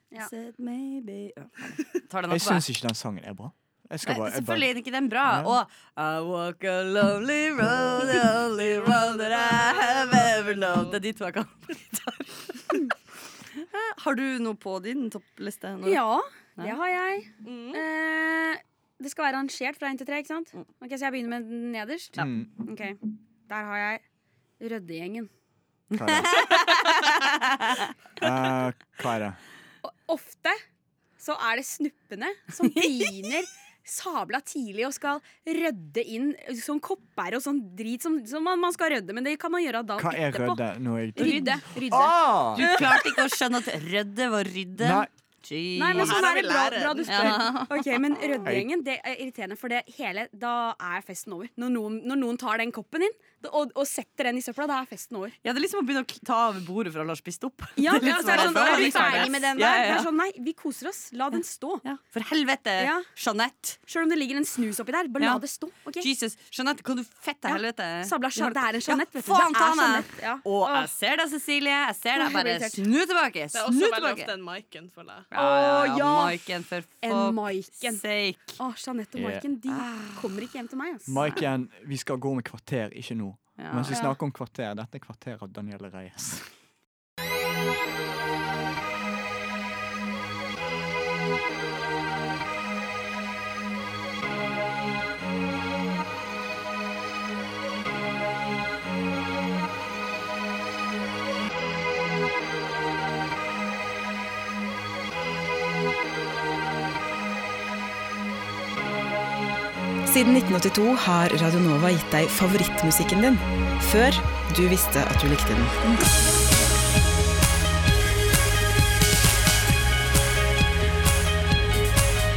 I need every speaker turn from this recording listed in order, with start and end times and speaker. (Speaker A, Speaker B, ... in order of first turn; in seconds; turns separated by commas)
Speaker A: 0.2-2.6, Speaker B: 2.3-4.7, Speaker A: 4.0-12.9, Speaker B: 5.2-5.6, Speaker C: 8.5-11.0, Speaker A: 13.5-16.0, Speaker D: 15.8-24.0, Speaker C: 17.4-17.8, Speaker B: 22.2-22.5, Speaker D: 24.6-25.3, Speaker A: 25.9-27.9, Speaker B: 25.9-26.6, Speaker B: 28.2-29.4, Speaker D: 29.8-30.6, Speaker D: 31.2-40.6, Speaker B: 40.0-42.7, Speaker D: 41.1-43.2, Speaker A: 42.5-46.3, Speaker B: 44.8-45.1, Speaker D: 45.8-55.4, Speaker C: 45.9-47.5, Speaker A: 47.0-47.9, Speaker B: 48.4-48.7, Speaker A: 55.4-60.1, Speaker D: 57.8-61.8, Speaker C: 58.1-59.3, Speaker A: 61.8-63.8, Speaker D: 62.8-63.1, Speaker D: 63.9-66.1, Speaker A: 66.0-74.3, Speaker D: 67.5-70.9, Speaker D: 72.2-72.8, Speaker C: 73.5-75.3, Speaker A: 75.3-78.6, Speaker D: 75.3-76.4, Speaker D: 77.0-78.0, Speaker D: 78.6-81.4, Speaker B: 79.1-79.5, Speaker A: 79.7-80.2, Speaker B: 81.0-86.5, Speaker A: 83.6-84.0, Speaker D: 83.9-84.2, Speaker E: 110.0-115.9